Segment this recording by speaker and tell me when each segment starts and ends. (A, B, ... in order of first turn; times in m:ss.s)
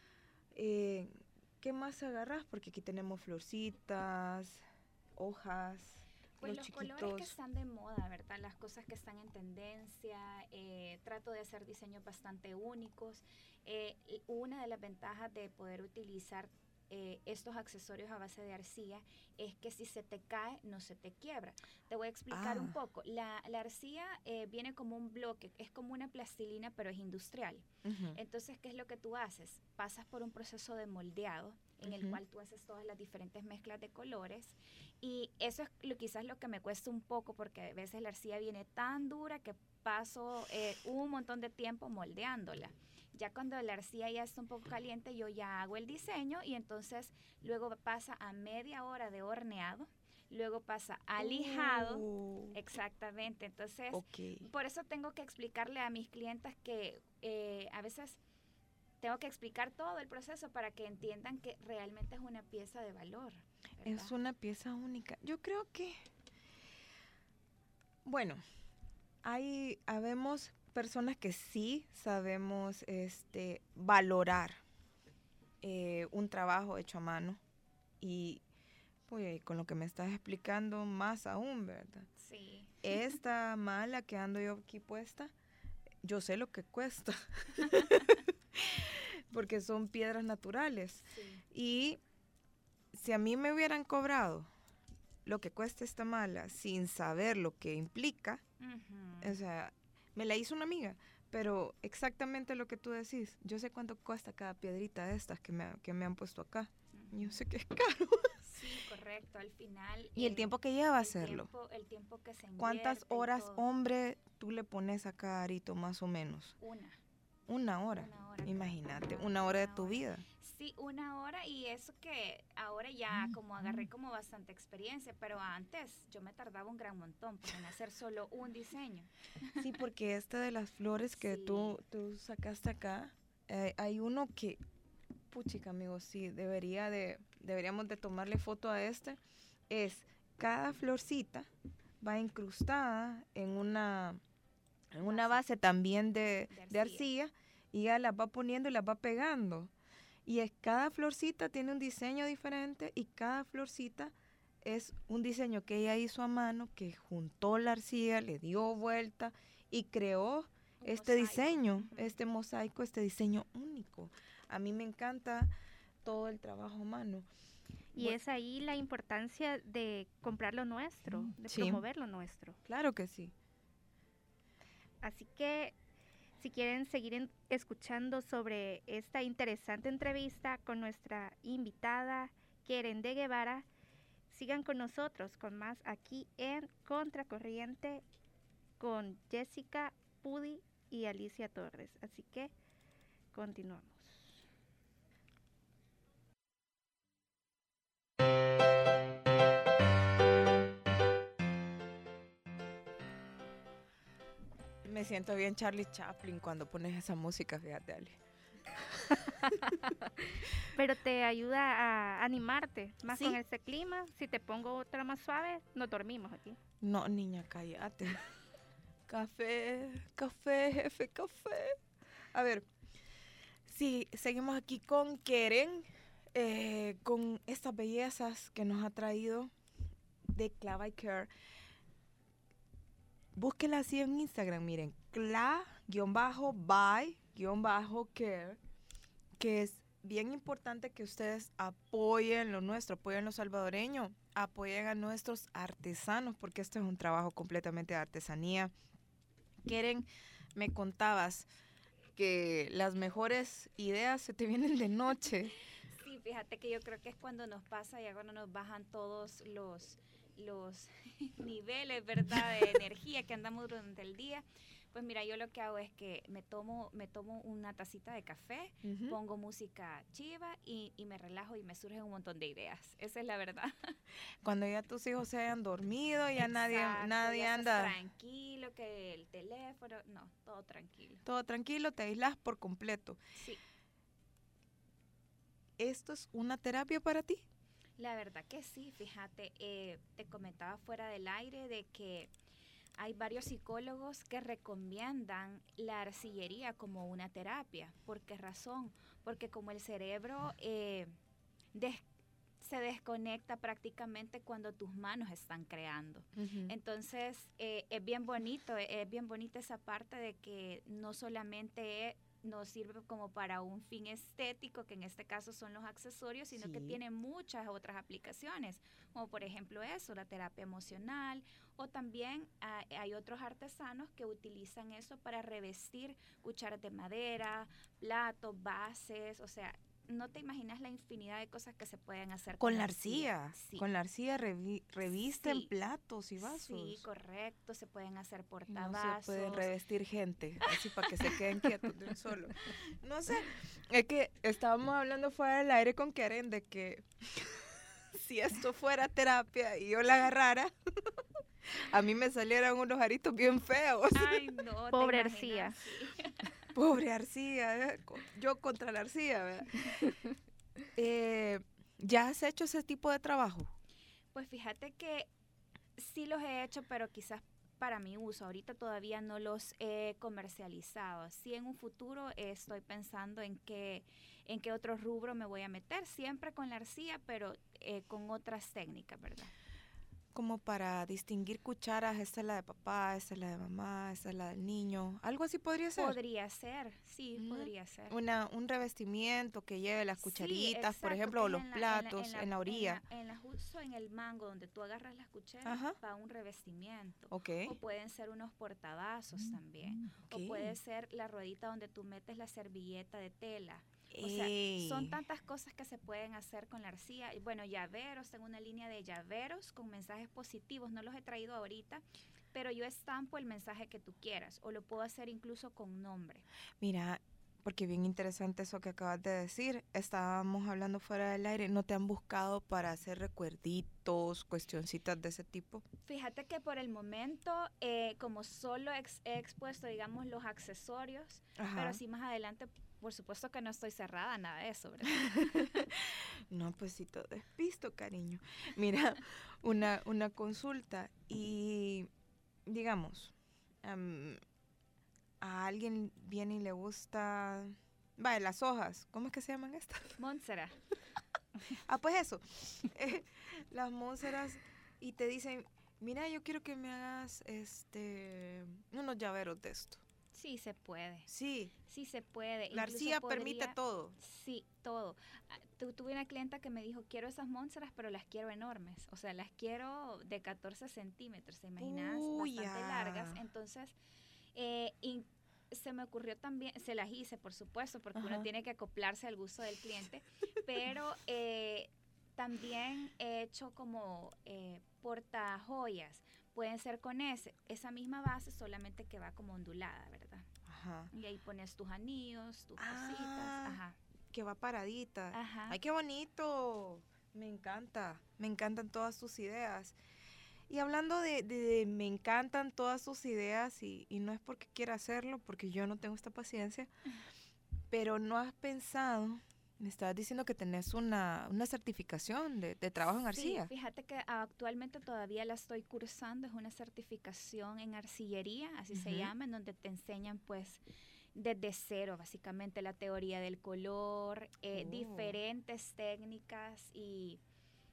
0:00.5-0:04.6 A
0:05.2-0:07.3 A
0:06.4-0:58.2 B
0:22.3-0:22.8 A
0:27.8-0:28.2 A
0:31.8-0:32.2 A
0:51.2-0:52.6 A
0:53.9-0:54.4 A
0:59.0-1:04.1 B
1:03.8-1:06.0 A
1:08.0-1:08.4 A
1:09.2-1:14.6 A
1:15.6-1:17.4 A
1:18.0-1:18.4 A
1:19.1-1:22.1 A
1:22.2-1:22.8 B
1:22.8-1:25.3 A
1:26.0-1:32.0 A
1:27.7-1:28.2 B
1:31.1-1:31.4 B
1:32.9-1:34.5 A
1:35.2-1:38.4 A
1:38.6-1:39.4 B
1:39.2-1:48.4 A
1:46.9-1:47.3 B
1:48.4-1:53.6 B
1:50.2-1:51.5 A
1:52.6-1:56.6 A
1:56.6-1:57.0 B
1:57.5-2:00.2 A
1:57.9-2:09.6 B
2:09.6-2:14.6 A
2:11.2-2:11.8 B
2:15.3-2:21.5 A
2:22.0-2:24.2 A
2:24.9-2:29.7 A
2:25.0-2:25.4 B
2:26.5-2:27.1 B
2:30.2-2:45.5 A
2:40.8-2:42.1 B
2:46.0-2:47.3 A
2:47.9-2:52.6 C
2:51.3-2:51.8 A
2:52.7-2:53.3 A
2:55.0-2:55.8 C
2:56.4-3:03.7 C
3:04.3-3:08.0 C
3:08.8-3:12.5 C
3:13.3-3:14.4 C
3:24.8-3:28.2 A
3:30.2-3:36.6 C
3:33.1-3:33.4 A
3:36.8-3:38.2 A
3:39.1-3:41.8 A
3:42.3-3:42.7 A
3:43.7-3:49.5 A
3:50.3-3:51.3 A
3:53.4-3:58.6 A
3:59.4-4:08.7 A
4:09.6-4:11.5 A
4:12.2-4:15.5 A
4:16.0-4:33.9 B
4:28.8-4:29.2 A
4:34.4-4:38.0 A
4:36.4-4:41.2 B
4:41.2-4:43.2 A
4:43.4-4:43.6 B
4:45.8-4:47.4 A
4:48.0-4:52.3 B
4:53.0-5:01.1 B
5:01.7-5:02.0 B
5:02.6-5:33.9 B
5:06.4-5:06.7 A
5:16.5-5:17.0 A
5:32.6-5:37.0 A
5:35.1-5:35.7 B
5:36.4-5:39.7 B
5:38.7-5:54.5 A
5:54.1-5:56.6 B
5:54.9-5:55.8 C
5:56.7-5:59.9 A
6:01.0-6:03.7 A
6:04.3-6:05.3 B
6:06.0-6:19.5 B
6:20.3-6:26.2 A
6:26.0-6:28.2 B
6:27.4-6:33.0 A
6:30.2-6:56.5 B
6:35.6-6:36.0 A
6:37.3-6:37.8 A
6:40.3-6:40.8 A
6:44.1-6:45.2 A
6:56.8-7:05.8 A
7:06.0-7:15.9 B
7:11.6-7:12.0 A
7:15.2-7:22.1 A
7:22.7-7:24.4 A
7:25.4-7:30.2 A
7:30.2-7:30.8 B
7:31.8-7:40.0 A
7:40.3-7:41.3 B
7:41.3-7:41.7 A
7:41.9-7:53.9 B
7:42.7-7:44.2 A
7:51.8-7:53.4 A
7:54.5-8:10.5 B
7:58.2-7:58.5 A
8:10.7-8:11.1 A
8:11.1-8:14.0 B
8:12.8-8:13.8 A
8:14.3-8:20.0 A
8:15.3-8:15.8 B
8:20.7-8:26.9 A
8:27.9-8:33.7 A
8:33.3-8:40.8 B
8:38.9-8:39.3 A
8:41.4-8:47.4 B
8:44.7-8:45.4 A